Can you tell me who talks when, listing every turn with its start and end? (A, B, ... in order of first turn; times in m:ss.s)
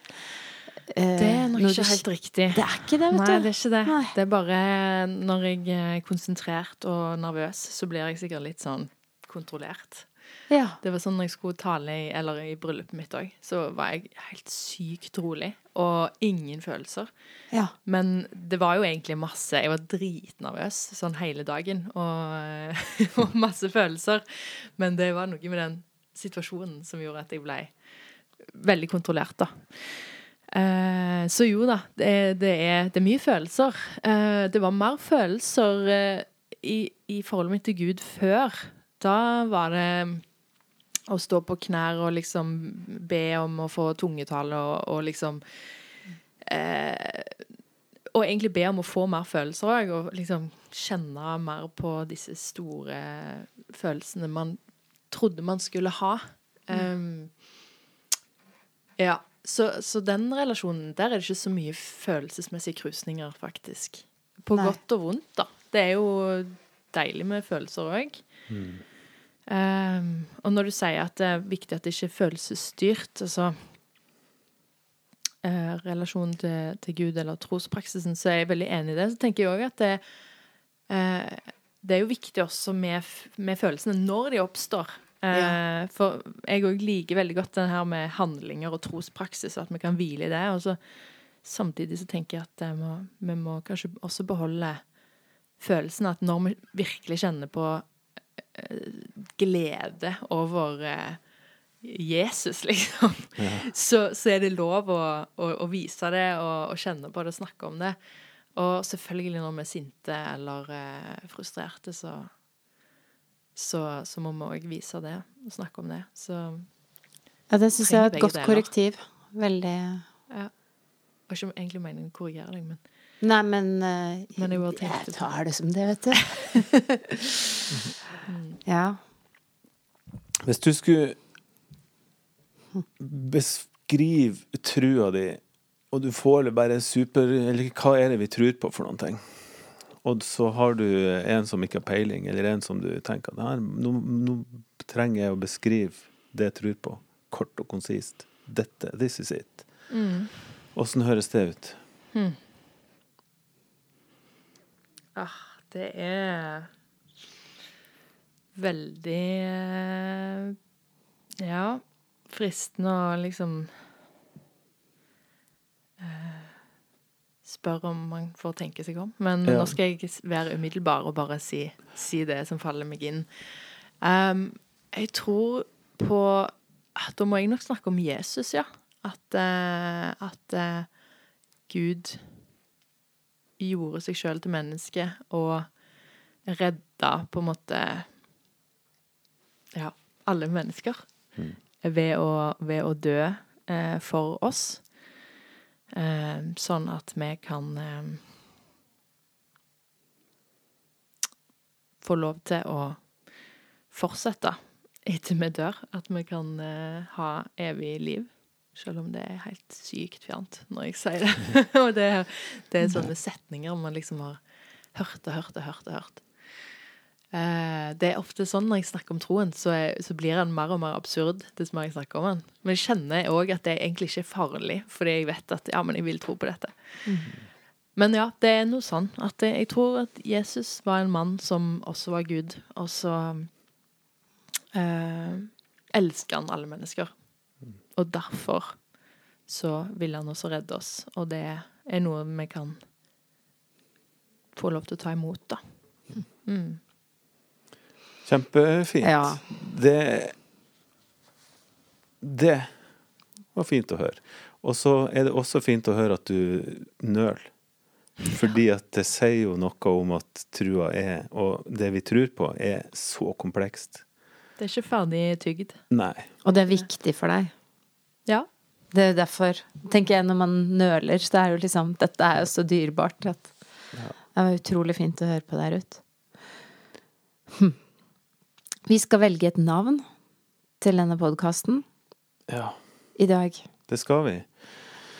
0:00.9-0:04.2 A
0:01.2-0:10.1 B
0:10.5-0:10.8 A
0:10.8-0:17.1 B
0:17.8-0:27.7 B
0:28.4-0:40.3 B
0:41.1-0:45.8 B
0:46.4-0:47.4 B
0:48.1-0:54.6 B
0:55.1-0:57.4 B
0:59.0-1:08.3 B
1:08.5-1:08.8 C
1:09.5-1:13.7 B
1:15.4-1:20.0 B
1:20.9-1:30.8 B
1:25.3-1:25.6 A
1:31.4-1:34.9 B
1:35.6-1:41.2 B
1:41.8-1:48.0 B
1:43.4-1:43.7 C
1:48.5-1:52.3 B
1:53.6-1:56.7 B
1:57.5-2:00.0 A
1:57.8-1:58.7 B
2:00.3-2:00.6 B
2:01.3-2:02.8 B
2:03.2-2:07.2 A
2:04.4-2:05.3 B
2:08.3-2:08.6 B
2:08.6-2:09.0 A
2:10.4-2:11.2 C
2:13.0-2:19.2 C
2:20.0-2:29.7 C
2:29.9-2:30.4 B
2:30.7-2:31.8 C
2:35.2-2:36.7 B
2:38.6-2:40.6 B
2:41.4-2:43.7 B
2:46.0-2:46.6 B
2:47.4-3:01.0 B
2:49.4-2:49.8 C
3:01.7-3:02.3 B
3:03.6-3:05.8 B
3:06.4-3:08.1 B
3:09.7-3:15.0 B
3:15.9-3:18.3 B
3:22.0-3:23.3 B
3:23.9-3:34.4 B
3:34.9-3:36.7 B
3:37.3-3:47.0 B
3:48.0-3:53.6 B
3:54.7-3:57.2 B
3:57.9-3:58.9 B
3:59.5-4:02.8 B
4:04.5-4:05.6 B
4:06.3-4:06.8 B
4:08.2-4:10.4 C
4:09.0-4:09.4 A
4:12.2-4:12.7 C
4:13.5-4:17.5 C
4:18.3-4:24.0 C
4:24.6-4:25.8 B
4:25.9-4:26.3 C
4:26.4-4:27.5 A
4:28.9-4:33.5 A
4:34.3-4:36.0 A
4:37.5-4:37.8 A
4:38.9-4:40.1 A
4:40.8-4:41.8 A
4:42.5-4:42.8 C
4:43.2-4:43.7 A
4:43.9-4:44.5 C